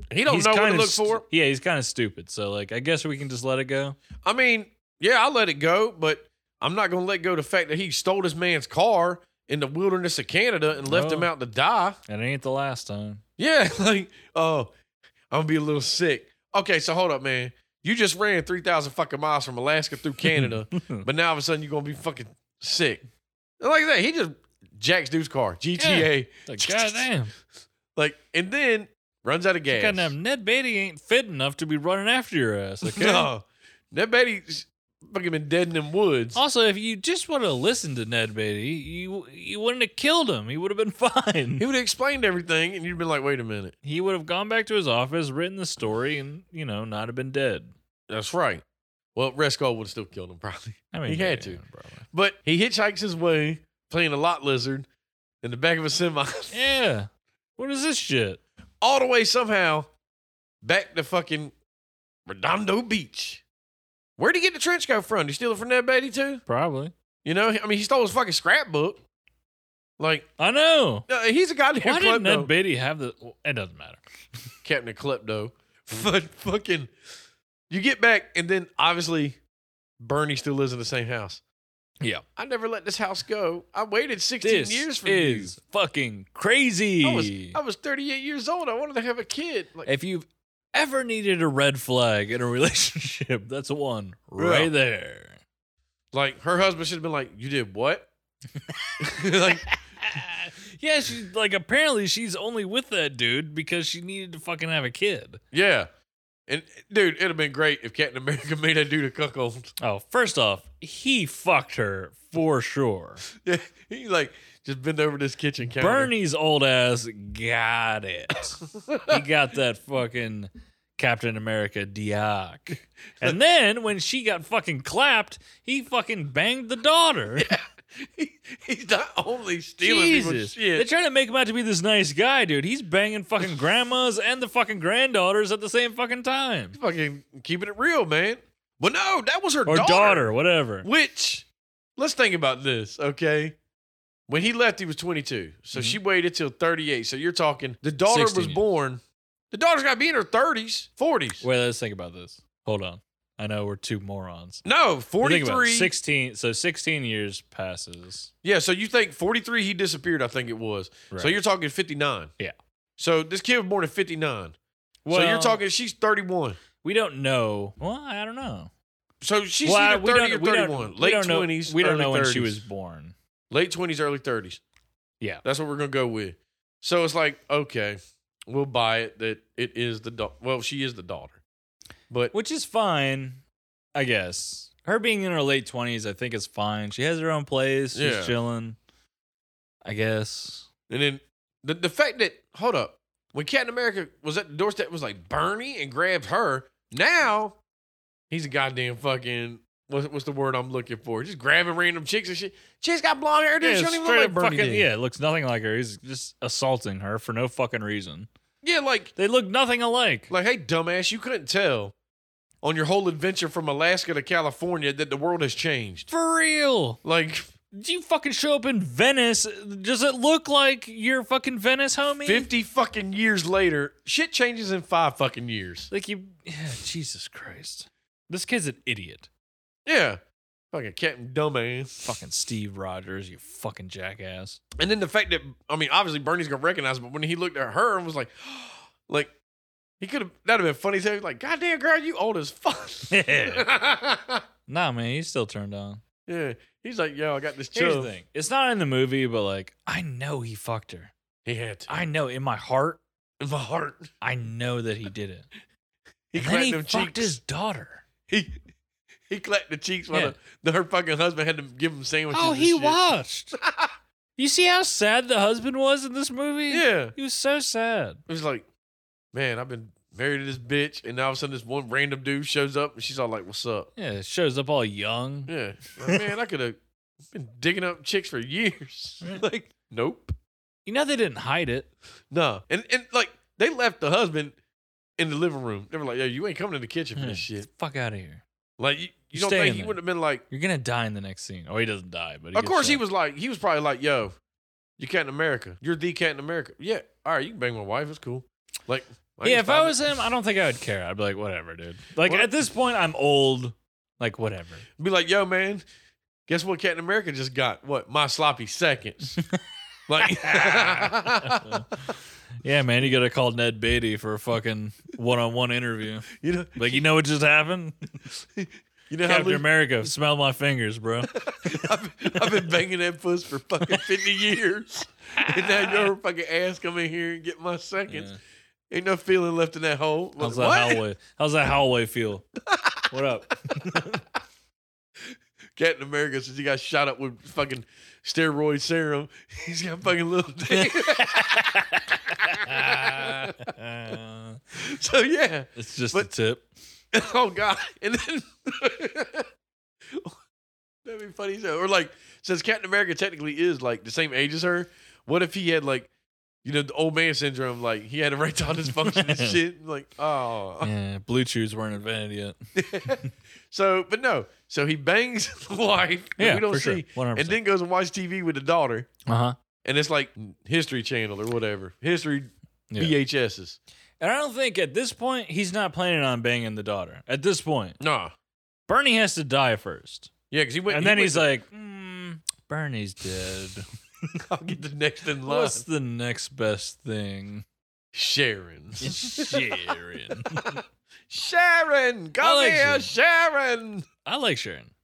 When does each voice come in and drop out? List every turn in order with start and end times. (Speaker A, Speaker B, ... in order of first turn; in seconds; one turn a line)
Speaker A: 0.1-1.2
Speaker B: 0.2-4.0
Speaker A: 4.2-12.0
Speaker B: 10.8-11.3
Speaker B: 12.1-13.2
Speaker A: 13.4-14.7
Speaker A: 15.3-23.0
Speaker B: 20.2-21.1
Speaker A: 23.6-27.1
Speaker B: 25.8-27.3
Speaker A: 27.9-30.1
Speaker B: 29.7-33.3
Speaker A: 32.8-36.4
Speaker B: 36.3-41.6
Speaker A: 41.6-43.7
Speaker B: 43.8-47.7
Speaker A: 48.1-48.6
Speaker A: 49.1-51.6
Speaker B: 50.9-52.0
Speaker A: 52.1-54.9
Speaker A: 55.4-56.6
Speaker B: 56.5-58.4
Speaker A: 58.8-59.9
Speaker A: 60.6-61.5
Speaker A: 62.2-63.4
Speaker A: 64.2-66.4
Speaker B: 66.5-66.9
Speaker A: 67.2-69.0
Speaker A: 70.0-70.3
Speaker B: 70.4-71.0
Speaker A: 71.1-72.5
Speaker B: 71.8-74.0
Speaker A: 74.6-76.9
Speaker A: 77.7-79.4
Speaker A: 80.0-81.4
Speaker A: 82.4-85.5
Speaker B: 84.4-87.6
Speaker A: 87.0-89.9
Speaker B: 89.8-95.4
Speaker A: 94.4-94.7
Speaker A: 96.1-98.1
Speaker A: 99.0-99.6
Speaker B: 99.4-105.4
Speaker A: 105.5-105.9
Speaker A: 106.5-109.7
Speaker B: 109.8-113.2
Speaker A: 113.3-116.1
Speaker B: 115.8-127.5
Speaker A: 118.7-119.2
Speaker A: 127.4-130.9
Speaker B: 129.8-136.8
Speaker A: 136.7-140.3
Speaker B: 139.7-140.9
Speaker A: 140.8-143.6
Speaker A: 144.3-149.0
Speaker B: 145.7-146.0
Speaker B: 148.1-148.6
Speaker A: 149.5-151.4
Speaker B: 151.4-154.6
Speaker A: 154.6-155.9
Speaker B: 155.2-158.3
Speaker A: 158.4-162.3
Speaker B: 161.1-161.4
Speaker A: 163.0-164.6
Speaker B: 165.0-165.6
Speaker A: 165.1-166.6
Speaker B: 166.8-168.7
Speaker A: 169.2-172.6
Speaker B: 169.6-173.1
Speaker A: 173.5-174.6
Speaker A: 175.4-181.4
Speaker B: 182.3-183.4
Speaker B: 183.9-188.8
Speaker A: 187.9-188.3
Speaker B: 189.8-190.7
Speaker A: 190.9-197.6
Speaker A: 198.3-204.9
Speaker B: 203.6-208.3
Speaker A: 208.6-209.1
Speaker B: 209.2-210.3
Speaker A: 210.3-211.9
Speaker A: 212.6-216.1
Speaker B: 216.1-217.0
Speaker A: 217.0-217.5
Speaker B: 217.7-222.5
Speaker A: 222.2-225.9
Speaker B: 225.9-229.3
Speaker A: 229.8-230.2
Speaker A: 230.7-232.1
Speaker B: 232.0-234.6
Speaker A: 234.8-239.3
Speaker A: 240.0-244.4
Speaker B: 243.1-243.7
Speaker B: 244.7-246.0
Speaker A: 246.3-248.1
Speaker B: 247.7-251.1
Speaker A: 251.4-252.0
Speaker B: 251.9-253.0
Speaker A: 253.4-254.1
Speaker B: 254.2-255.5
Speaker A: 256.3-257.4
Speaker B: 256.4-258.0
Speaker A: 258.3-258.6
Speaker A: 259.3-263.0
Speaker B: 260.1-260.4
Speaker B: 262.3-263.6
Speaker A: 263.6-263.9
Speaker B: 264.4-268.2
Speaker A: 266.7-267.1
Speaker A: 268.3-268.6
Speaker A: 269.3-273.9
Speaker B: 274.0-276.2
Speaker A: 275.5-276.8
Speaker A: 277.3-280.3
Speaker B: 280.9-281.9
Speaker A: 282.3-284.5
Speaker A: 285.2-287.7
Speaker B: 287.1-288.4
Speaker A: 288.8-290.4
Speaker B: 289.3-290.0
Speaker B: 290.5-293.0
Speaker A: 292.5-294.4
Speaker A: 295.0-299.9
Speaker B: 299.4-304.9
Speaker A: 302.2-302.5
Speaker A: 305.0-305.8
Speaker A: 306.5-309.4
Speaker A: 310.1-311.8
Speaker B: 310.2-311.9
Speaker B: 312.6-317.9
Speaker A: 316.3-317.0
Speaker A: 318.6-319.6
Speaker B: 319.2-322.7
Speaker A: 321.3-328.3
Speaker B: 325.4-326.1
Speaker B: 328.1-328.4
Speaker A: 328.9-331.0
Speaker B: 330.4-332.4
Speaker A: 332.7-333.1
Speaker B: 333.1-334.2
Speaker A: 335.8-341.7
Speaker B: 340.8-344.6
Speaker A: 342.3-343.7
Speaker A: 344.7-346.3
Speaker B: 345.8-346.7
Speaker A: 347.1-349.5
Speaker A: 350.1-350.4
Speaker A: 351.0-356.1
Speaker A: 356.6-360.9
Speaker B: 359.0-359.6
Speaker B: 360.8-362.6
Speaker A: 362.7-369.1
Speaker B: 366.4-367.6
Speaker B: 369.2-369.6
Speaker A: 369.8-373.8
Speaker B: 372.9-373.1
Speaker B: 374.2-378.0
Speaker A: 378.0-378.3
Speaker B: 378.9-380.3
Speaker A: 380.5-381.5
Speaker B: 380.9-383.8
Speaker A: 384.5-385.8
Speaker B: 385.4-387.6
Speaker A: 388.1-389.9
Speaker B: 389.0-390.8
Speaker A: 390.5-394.1
Speaker B: 392.4-393.1
Speaker B: 394.2-394.9